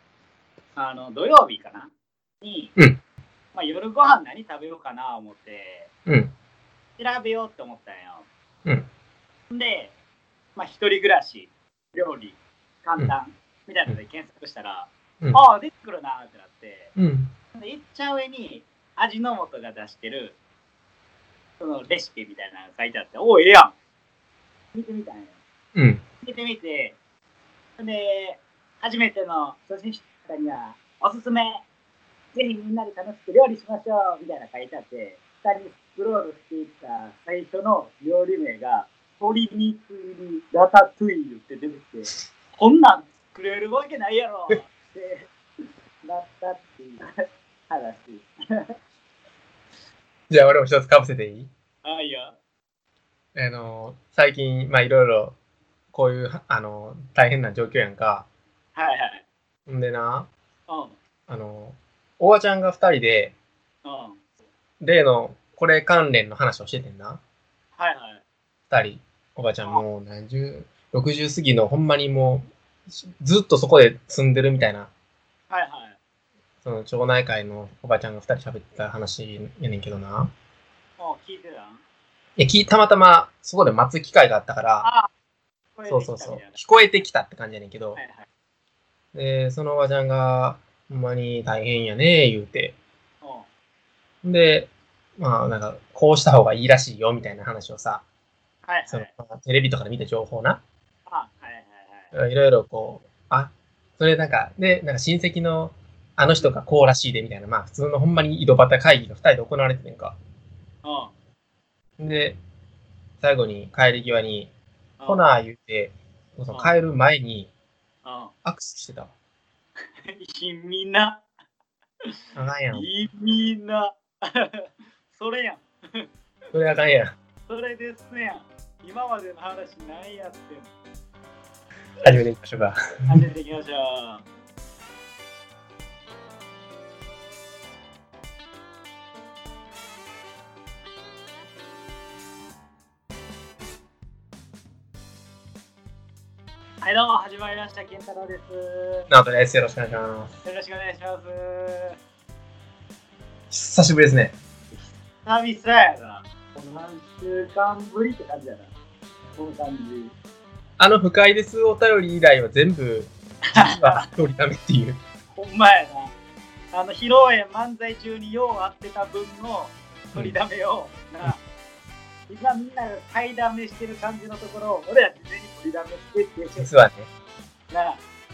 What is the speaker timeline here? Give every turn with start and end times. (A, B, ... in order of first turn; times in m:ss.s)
0:00.8-0:02.7 A
0:03.5-0:05.9 A
0:06.0-0:06.3 B
0:07.0-0:08.3 A
0:09.5-0:09.9 A
0:10.6-0:16.9 A
0:17.0-0:17.3 B
0:17.5-0:20.4 A
0:21.6-0:23.7 A
0:24.7-0:25.4 A
0:25.7-0:26.0 B
0:26.2-0:27.0 A
0:27.8-0:31.6 A
0:32.3-0:45.3 A
0:46.0-0:47.1 A
0:47.7-0:48.6 A
0:50.3-0:51.5 B
0:51.8-0:52.4 A
0:53.3-0:55.4 B
0:55.9-0:58.2 B
0:58.8-0:59.2 A
0:59.7-1:00.3 B
1:00.7-1:01.0 A
1:01.3-1:03.3 B
1:03.8-1:04.2 A
1:04.8-1:07.2 B
1:07.8-1:08.2 A
1:08.7-1:14.9 B
1:15.5-1:16.0 A
1:16.6-1:20.3 B
1:21.0-1:21.8 A
1:22.4-1:24.9 B
1:24.8-1:25.1 A
1:25.8-1:26.6 A
1:25.9-1:28.0 B
1:28.0-1:28.3 A
1:29.1-1:32.7 B
1:33.2-1:33.5 A
1:34.2-1:38.0 B
1:38.6-1:39.1 A
1:38.9-1:40.6 B
1:41.1-1:42.1 A
1:42.1-1:50.2 B
1:50.8-1:51.1 A
1:52.0-1:52.4 B
1:53.2-1:54.5 B
1:55.0-1:55.3 A
1:55.0-1:57.5 B
1:58.0-1:58.3 A
1:58.4-1:59.1 B
2:00.0-2:01.2 A
2:02.4-2:02.9 B
2:02.7-2:06.1 A
2:06.5-2:07.2 B
2:07.5-2:10.7 A
2:12.0-2:13.2 B
2:13.1-2:14.2 A
2:26.8-2:29.1 A
2:29.1-2:30.3 B
2:30.4-2:32.0 A
2:33.5-2:34.3 B
2:35.2-2:38.7 A
2:39.4-2:40.1 A
2:40.8-2:45.0 B
2:43.5-2:44.1 A
2:45.3-2:46.1 A
2:46.7-2:51.4 A
2:52.3-2:56.7 A
2:56.6-2:57.1 B
2:57.7-2:58.0 A